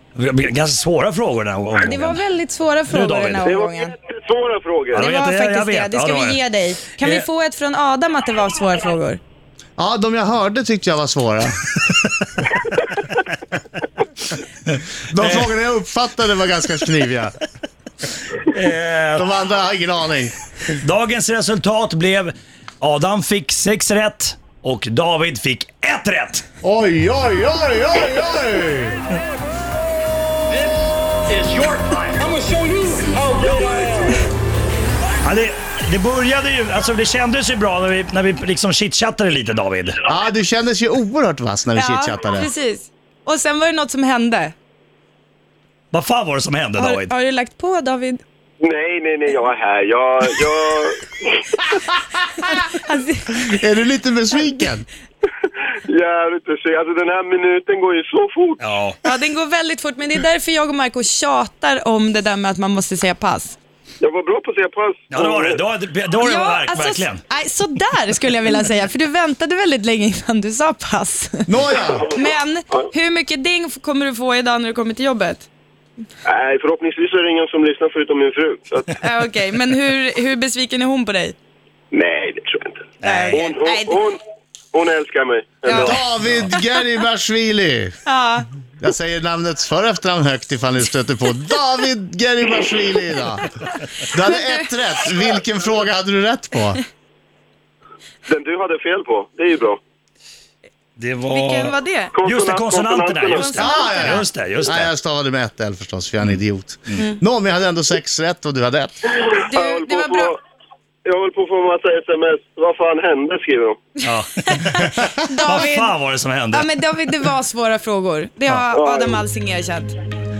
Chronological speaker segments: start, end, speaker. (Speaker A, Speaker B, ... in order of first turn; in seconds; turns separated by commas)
Speaker A: 0.1-2.2, Speaker B: 1.8-3.9, Speaker A: 2.9-3.5, Speaker C: 3.5-5.0, Speaker A: 4.9-6.4, Speaker B: 5.0-9.2, Speaker D: 9.8-12.3, Speaker A: 14.7-15.5, Speaker D: 15.1-17.4, Speaker A: 18.4-19.2, Speaker D: 19.1-20.3, Speaker A: 20.7-26.4, Speaker D: 26.6-29.0, Speaker A: 31.3-32.4, Speaker A: 33.6-33.9, Speaker A: 35.2-40.0, Speaker D: 40.0-42.5, Speaker B: 41.7-44.5, Speaker A: 45.9-47.1, Speaker B: 46.8-48.2, Speaker C: 48.6-51.7, Speaker B: 52.4-53.5, Speaker D: 53.4-54.9, Speaker C: 55.4-58.6, Speaker A: 58.6-59.0, Speaker B: 59.0-63.6, Speaker C: 64.0-65.6, Speaker A: 65.1-67.2, Speaker B: 66.2-71.5, Speaker D: 71.5-72.1, Speaker B: 72.1-75.5, Speaker C: 76.2-79.0, Speaker B: 79.0-81.3, Speaker C: 81.9-84.2, Speaker A: 83.0-83.5, Speaker B: 83.0-84.0, Speaker C: 84.7-86.0, Speaker B: 85.7-86.0, Speaker D: 85.7-87.9, Speaker A: 85.8-86.5, Speaker B: 88.0-88.5, Speaker D: 88.8-96.8, Speaker B: 94.2-94.7, Speaker C: 98.3-99.8, Speaker A: 101.0-104.9, Speaker B: 101.3-102.1, Speaker C: 102.1-103.6, Speaker B: 103.3-104.2, Speaker D: 103.5-109.0, Speaker C: 109.2-110.4, Speaker B: 109.3-110.3, Speaker C: 111.0-113.9, Speaker A: 114.0-116.7, Speaker B: 114.5-115.9, Speaker B: 116.5-119.9, Speaker C: 118.7-119.2